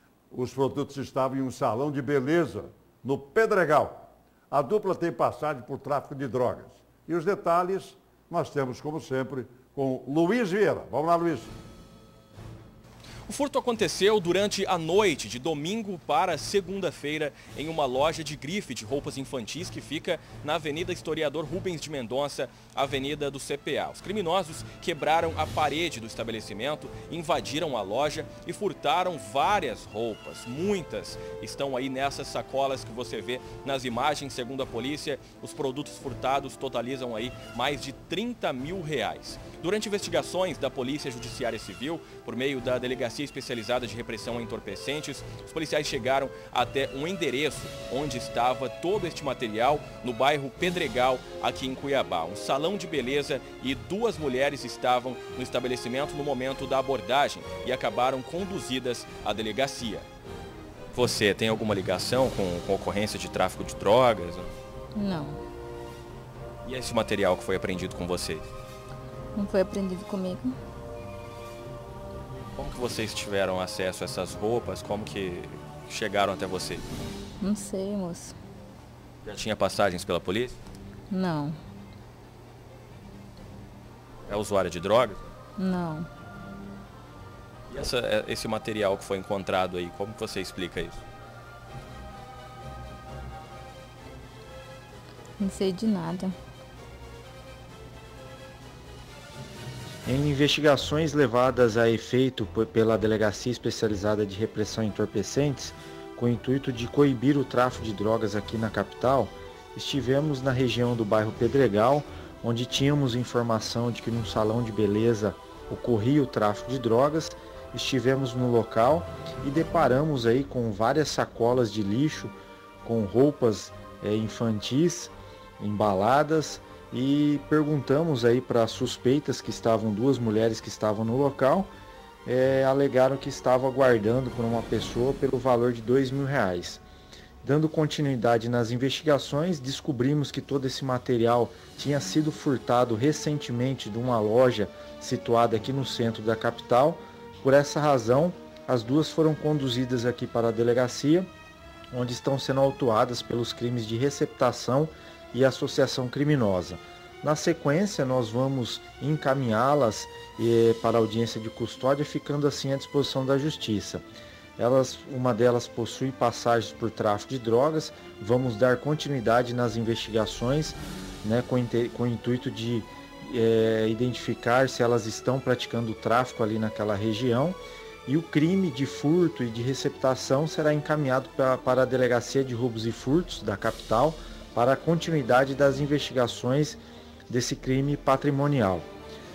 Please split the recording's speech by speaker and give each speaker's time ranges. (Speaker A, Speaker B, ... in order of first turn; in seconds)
Speaker A: 0.3-11.5
Speaker B: 13.3-60.1, 60.9-64.5, 66.6-68.5, 72.6-76.9, 79.2-80.6, 84.3-85.3, 87.7-91.0
Speaker C: 64.9-65.4, 69.3-70.5, 77.4-78.3, 81.1-81.6, 85.6-86.1, 95.4-96.3
Speaker D: 100.0-131.7, 132.2-136.8, 137.4-151.3, 151.9-164.0, 164.6-188.9